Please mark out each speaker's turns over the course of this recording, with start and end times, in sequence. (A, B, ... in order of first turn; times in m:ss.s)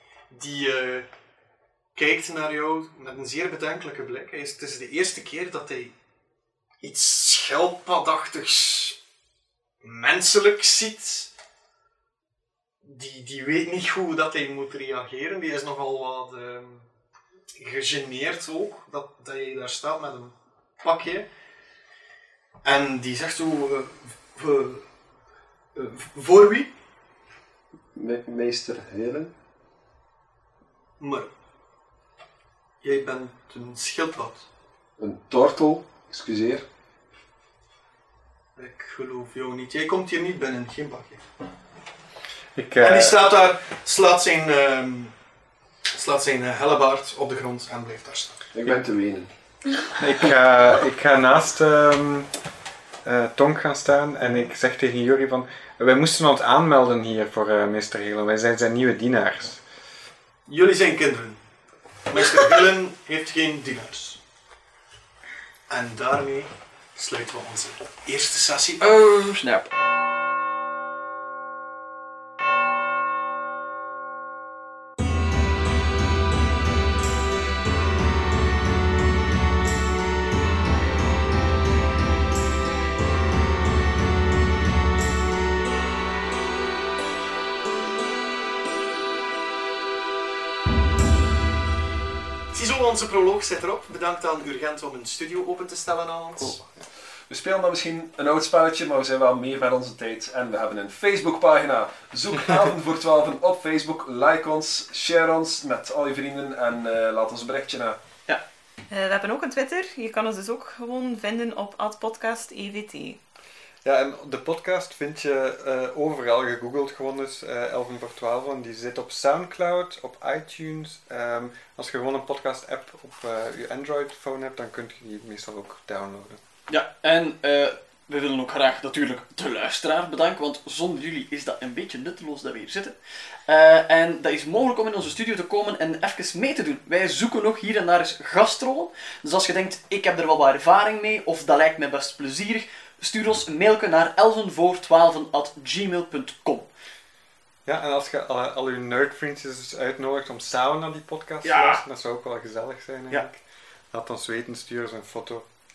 0:00.3-0:01.1 A
0:01.9-0:05.9 A
0:06.8-0:09.0 A
0:09.8-0:11.3 A
0:12.8-0:16.9 A
0:17.6-0:21.3 A
0:22.6-0:24.8 A
0:25.7-0:26.7 A
0:27.9-0:29.3 B
0:31.0-0:31.3 A
0:32.8-0:34.4 A
0:35.0-0:36.6 B
0:38.6-0:41.2 A
0:42.6-0:43.2 C
0:42.8-0:45.1 A
0:45.9-0:48.4 A
0:48.5-0:49.3 B
0:50.0-0:52.3 C
0:53.0-0:59.6 C
1:00.5-1:01.4 A
1:02.1-1:04.2 A
1:05.7-1:09.0 A
1:08.8-1:09.7 D
1:32.5-1:36.6 A
1:37.3-1:48.0 B
1:48.9-1:53.2 E
1:53.8-2:06.4 C
2:06.7-2:12.9 D
2:13.5-2:26.7 D
2:27.6-2:35.4 C
2:31.4-2:31.8 D